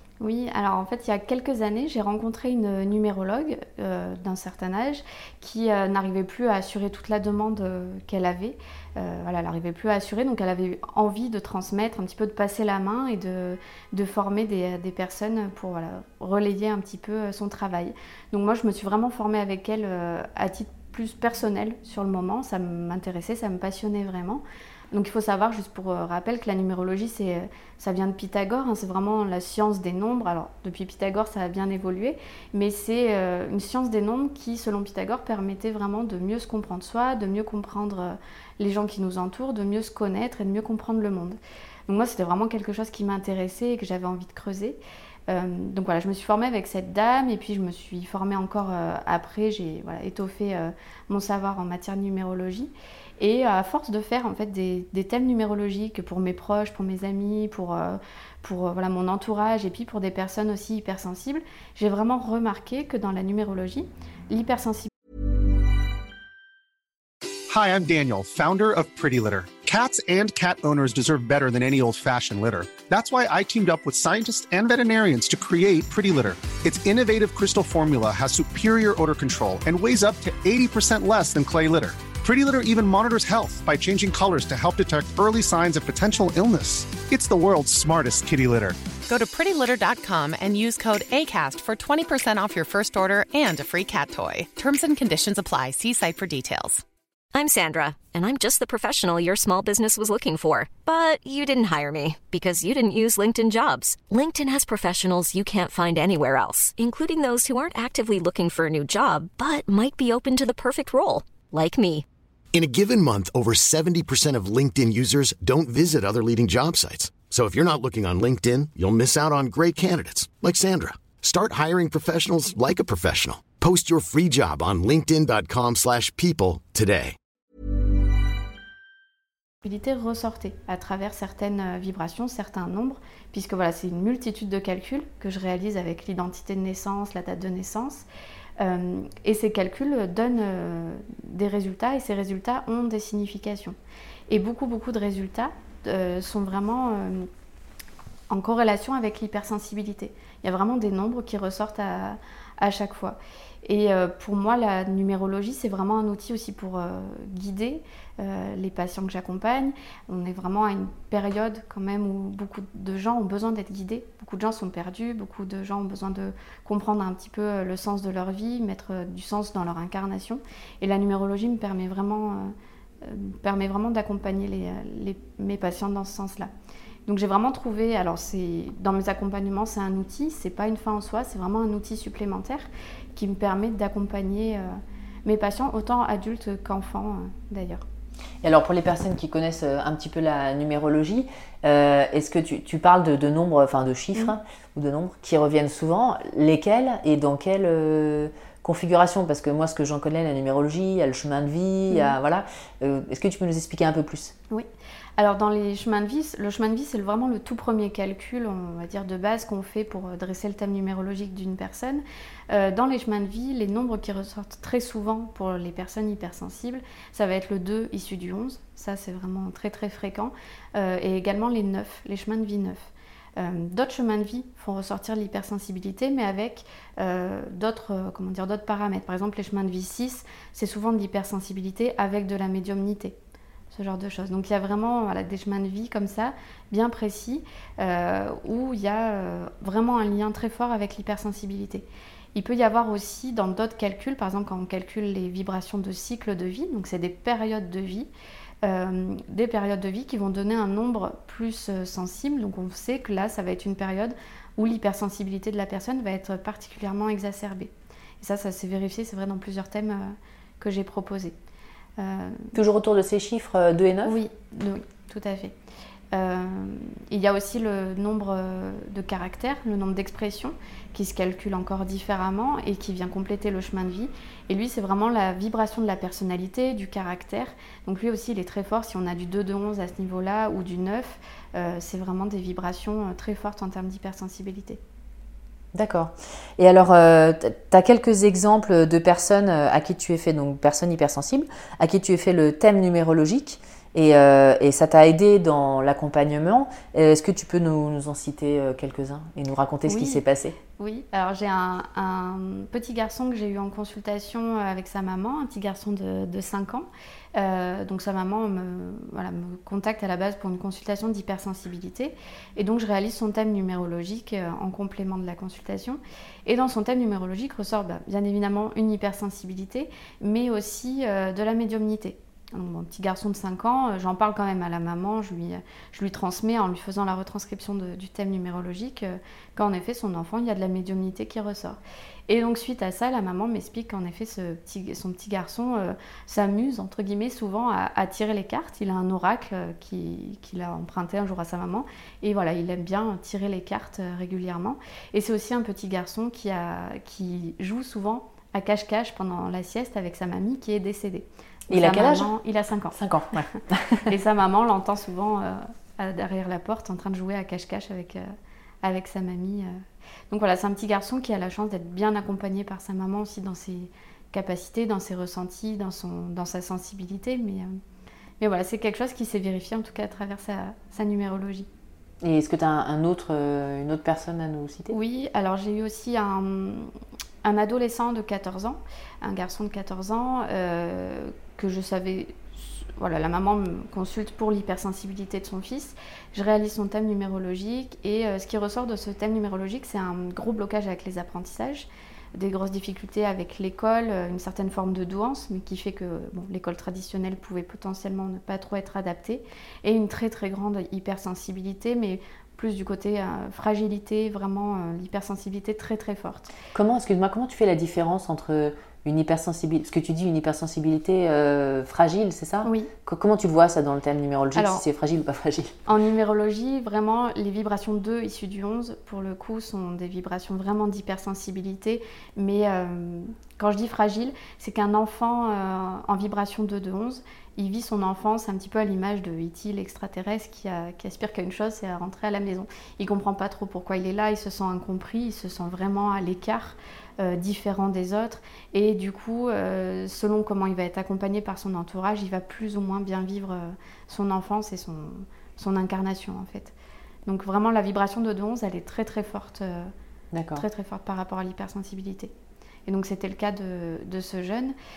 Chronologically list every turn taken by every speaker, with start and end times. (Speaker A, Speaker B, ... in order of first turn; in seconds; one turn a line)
Speaker A: 0.2-64.9
Speaker B: 67.5-88.9
Speaker C: 89.0-96.8
Speaker D: 97.3-112.0
Speaker E: 112.5-127.2
Speaker A: 129.6-138.1
Speaker A: 138.6-143.7
Speaker A: 144.3-147.3
Speaker A: 148.3-176.5
Speaker A: 177.1-187.8
Speaker F: 188.4-204.3
Speaker A: 201.9-202.2
Speaker A: 205.2-233.2
Speaker A: 233.7-248.1
Speaker A: 248.6-261.3
Speaker A: 262.0-262.5
Speaker F: 262.5-264.2
Speaker A: 264.0-265.5
Speaker A: 266.1-284.8
Speaker F: 285.7-300.6
Speaker A: 299.9-300.2
Speaker A: 300.8-353.4
Speaker F: 351.7-352.3
Speaker F: 352.9-354.1
Speaker A: 354.1-358.3
Speaker A: 358.8-367.7
Speaker A: 368.4-371.7
Speaker F: 372.2-375.0
Speaker A: 374.9-376.9
Speaker A: 377.4-406.5
Speaker F: 406.7-415.8
Speaker A: 412.6-412.9
Speaker A: 414.5-414.8
Speaker A: 415.9-446.7
Speaker A: 447.2-449.9
Speaker F: 450.3-450.7
Speaker A: 450.6-452.3
Speaker A: 452.9-454.7